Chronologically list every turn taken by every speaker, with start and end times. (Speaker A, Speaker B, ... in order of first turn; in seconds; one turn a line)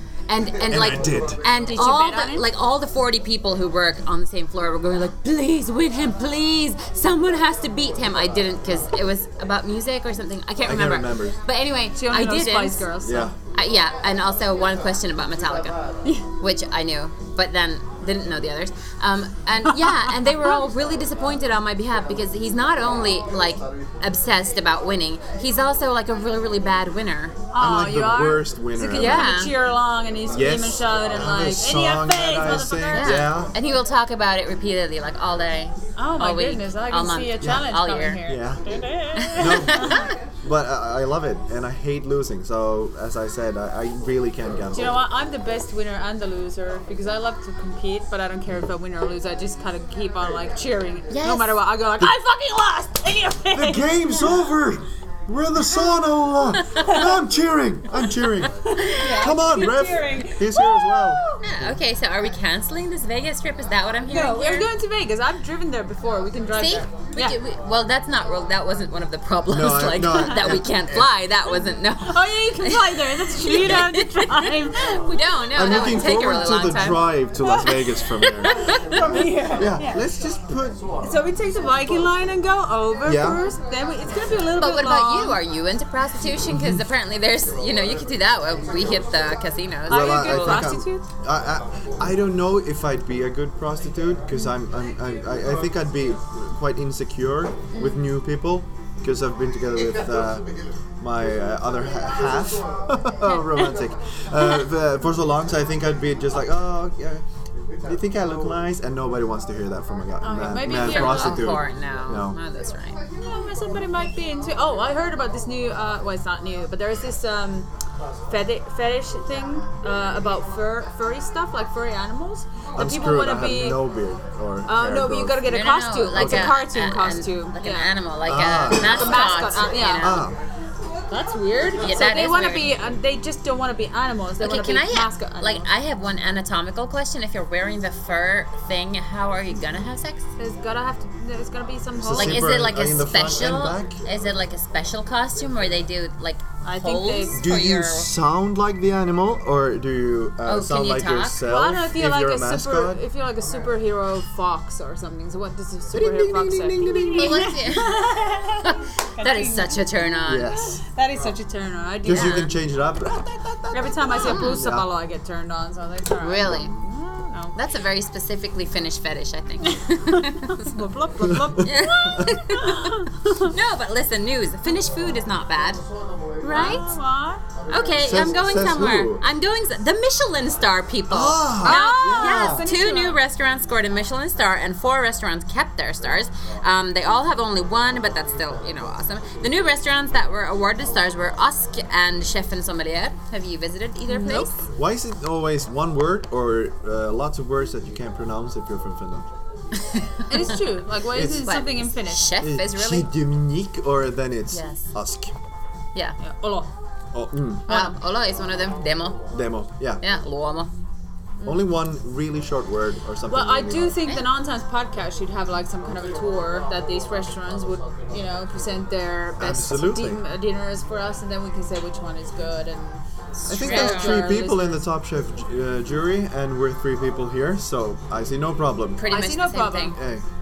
Speaker A: 0.3-12.9
Speaker B: 0.7-1.4
Speaker C: 1.6-2.4
Speaker B: 10.6-11.4
Speaker C: 11.9-13.3
Speaker B: 13.0-13.3
Speaker A: 13.5-15.8
Speaker A: 16.3-27.4
Speaker C: 19.7-20.6
Speaker C: 27.5-33.3
Speaker B: 27.6-29.3
Speaker A: 28.9-29.5
Speaker B: 30.3-33.5
Speaker A: 32.9-38.2
Speaker C: 36.0-40.1
Speaker B: 37.4-37.7
Speaker B: 38.2-38.6
Speaker A: 39.1-40.1
Speaker B: 39.4-45.0
Speaker C: 44.7-54.4
Speaker A: 51.1-51.5
Speaker B: 53.5-61.7
Speaker C: 58.7-61.4
Speaker A: 58.8-59.3
Speaker A: 61.4-64.7
Speaker C: 64.1-67.4
Speaker A: 66.5-77.1
Speaker B: 69.5-71.1
Speaker C: 72.0-75.2
Speaker B: 75.5-80.8
Speaker C: 77.5-77.8
Speaker A: 78.4-79.0
Speaker C: 78.4-80.0
Speaker C: 81.0-85.4
Speaker B: 83.0-83.4
Speaker A: 84.6-90.7
Speaker B: 86.4-86.8
Speaker C: 89.9-91.0
Speaker B: 89.9-100.5
Speaker A: 97.7-98.0
Speaker B: 101.0-107.2
Speaker B: 107.8-112.4
Speaker C: 110.2-111.6
Speaker A: 110.7-113.0
Speaker C: 113.2-117.7
Speaker C: 118.3-123.8
Speaker B: 122.8-125.4
Speaker C: 124.7-127.9
Speaker A: 125.4-130.3
Speaker B: 126.1-126.5
Speaker B: 128.2-129.2
Speaker C: 128.7-130.2
Speaker B: 130.0-130.3
Speaker C: 131.1-135.7
Speaker A: 131.8-132.7
Speaker A: 134.4-140.3
Speaker C: 140.4-142.5
Speaker B: 142.0-144.0
Speaker A: 142.2-148.1
Speaker C: 146.6-147.4
Speaker B: 147.3-153.0
Speaker A: 150.4-151.4
Speaker C: 151.4-160.0
Speaker B: 155.9-157.4
Speaker A: 157.2-158.0
Speaker A: 158.6-160.6
Speaker B: 160.2-160.8
Speaker C: 160.5-162.5
Speaker B: 162.0-164.9
Speaker A: 162.1-162.5
Speaker C: 163.7-167.5
Speaker A: 164.2-164.6
Speaker A: 166.2-166.7
Speaker B: 166.4-166.8
Speaker A: 167.5-170.7
Speaker C: 169.7-173.5
Speaker B: 171.2-172.3
Speaker A: 171.6-175.8
Speaker A: 176.4-176.8
Speaker C: 176.4-177.4
Speaker A: 177.7-194.5
Speaker B: 178.0-179.2
Speaker B: 181.1-182.6
Speaker C: 181.6-183.2
Speaker C: 194.1-194.6
Speaker B: 194.6-199.3
Speaker A: 199.8-200.5
Speaker C: 200.3-202.3
Speaker B: 201.1-201.5
Speaker A: 201.3-203.1
Speaker B: 202.4-205.3
Speaker A: 204.5-204.8
Speaker C: 206.2-206.7
Speaker B: 207.1-207.9
Speaker A: 207.7-209.2
Speaker B: 209.3-210.0
Speaker A: 210.0-210.7
Speaker B: 211.4-214.0
Speaker C: 213.3-224.8
Speaker B: 219.4-220.2
Speaker B: 223.5-229.1
Speaker A: 223.5-224.2
Speaker A: 229.0-229.9
Speaker C: 229.1-230.0
Speaker B: 229.9-230.2